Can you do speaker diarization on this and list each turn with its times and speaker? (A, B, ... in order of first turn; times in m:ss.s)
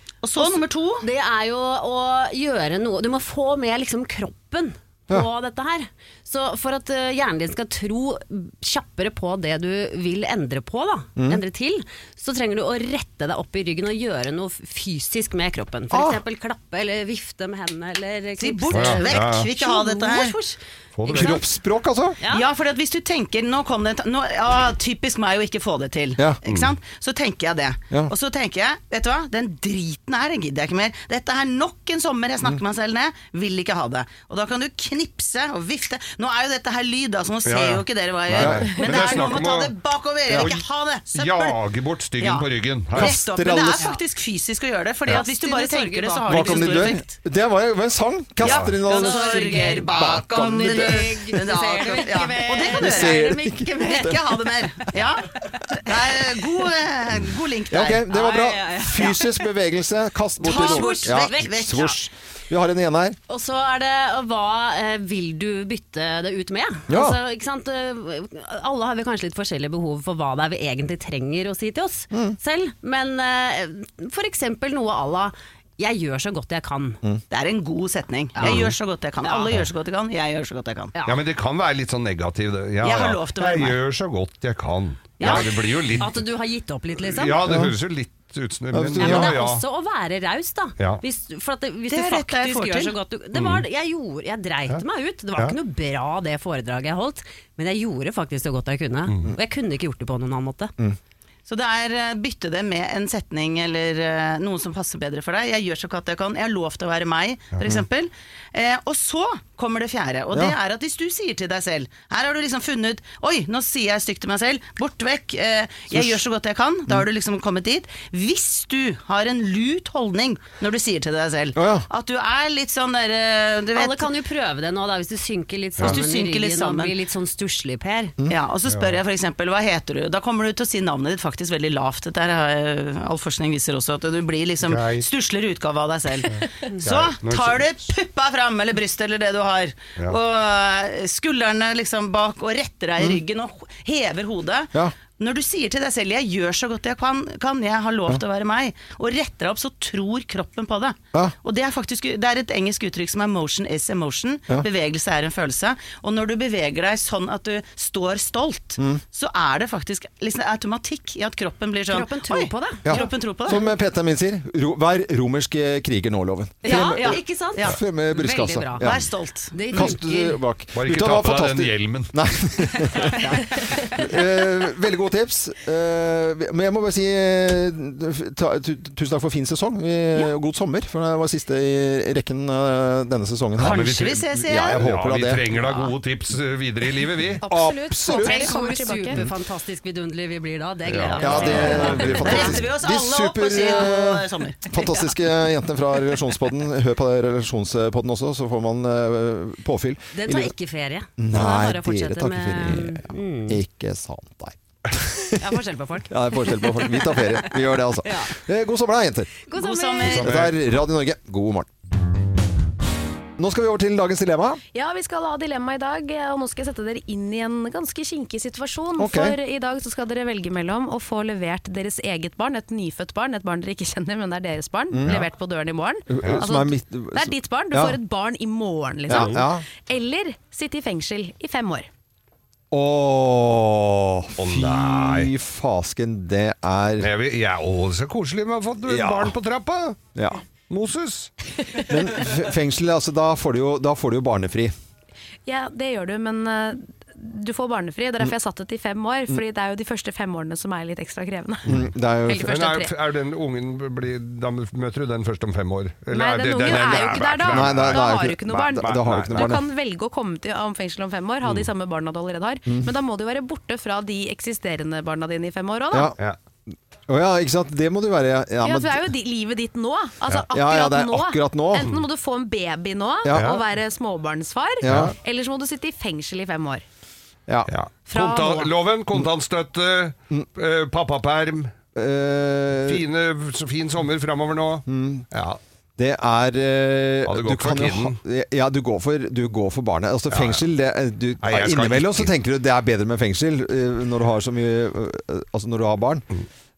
0:00.2-0:01.1 A
0:00.4-0:21.4 B
0:11.2-0:11.4 C
0:15.9-0:16.2 C
0:18.4-0:20.4 A
0:18.7-0:19.4 D
0:21.0-0:21.4 D
0:21.1-0:22.2 C
0:22.2-0:22.5 B
0:22.3-0:41.6 A
0:37.4-0:39.7 D
0:38.3-0:38.7 C
0:40.3-0:43.2 D
0:42.2-0:47.1 A
0:42.9-0:43.9 C
0:45.1-0:46.8 E
0:46.3-0:50.9 C
0:48.4-0:48.8 D
0:48.4-0:58.1 A
0:48.8-0:54.6 B
0:52.8-0:54.2 C
0:55.4-0:56.1 B
0:57.7-1:03.2 C
0:58.0-0:59.4 B
1:00.4-1:01.9 B
1:00.4-1:02.0 A
1:03.3-1:17.0 B
1:06.9-1:07.2 C
1:12.1-1:12.4 C
1:17.3-1:20.9 A
1:18.4-1:19.7 B
1:18.4-1:18.7 D
1:21.0-1:21.2 B
1:21.1-1:26.2 D
1:22.8-1:23.8 A
1:25.2-1:27.7 B
1:25.2-1:25.5 A
1:27.0-1:29.6 D
1:27.5-1:27.8 C
1:28.7-1:29.3 C
1:28.9-1:40.7 B
1:30.8-1:31.0 D
1:31.9-1:33.0 A
1:33.3-1:33.6 D
1:41.5-2:04.1 A
1:47.5-1:47.8 D
1:55.9-1:56.2 C
2:01.6-2:01.9 C
2:03.7-2:08.2 B
2:05.8-2:07.0 A
2:08.3-2:43.6 A
2:08.7-2:09.0 D
2:14.6-2:15.1 D
2:16.8-2:17.6 D
2:41.9-2:43.1 B
2:42.8-2:49.0 C
2:46.6-2:47.8 A
2:46.6-2:50.4 B
2:48.8-2:50.0 A
2:49.7-2:53.2 C
2:50.7-2:52.1 D
2:53.2-2:53.5 A
2:53.8-3:05.6 C
3:03.6-3:07.4 D
3:03.6-3:04.9 A
3:07.4-3:08.5 C
3:07.4-3:09.2 E
3:08.0-3:12.6 B
3:10.9-3:12.4 D
3:11.2-3:14.7 A
3:11.2-3:20.5 C
3:14.7-3:15.1 B
3:20.1-3:23.1 B
3:21.2-3:25.4 C
3:25.4-3:28.4 B
3:26.1-3:29.3 C
3:29.5-3:30.3 B
3:29.5-3:30.5 A
3:30.1-3:30.5 D
3:30.2-3:31.7 C
3:33.4-3:34.6 C
3:34.7-3:51.9 E
3:39.0-3:39.4 C
3:44.9-3:45.2 C
3:46.1-3:48.0 C
3:49.1-3:49.6 C
3:49.1-3:49.4 D
3:52.7-3:57.1 C
3:54.4-3:55.3 D
3:57.0-4:00.0 D
3:58.8-3:59.3 C
4:00.2-4:00.4 C
4:00.7-4:01.3 D
4:01.8-4:04.7 C
4:05.5-4:12.9 E
4:11.7-4:12.6 C
4:12.4-4:19.6 D
4:16.1-4:26.1 E
4:17.5-4:19.6 C
4:21.4-4:21.7 D
4:27.1-4:29.1 C
4:28.6-4:36.8 E
4:30.3-4:32.0 C
4:33.2-4:33.6 C
4:33.3-4:33.6 D
4:34.8-4:35.1 C
4:34.8-4:35.1 D
4:37.7-4:41.8 D
4:38.1-4:38.7 E
4:42.0-4:43.0 C
4:42.9-4:45.6 D
4:44.9-4:45.2 C
4:46.0-4:56.2 C
4:47.2-4:48.2 D
4:50.3-4:50.6 D
4:51.4-4:52.3 D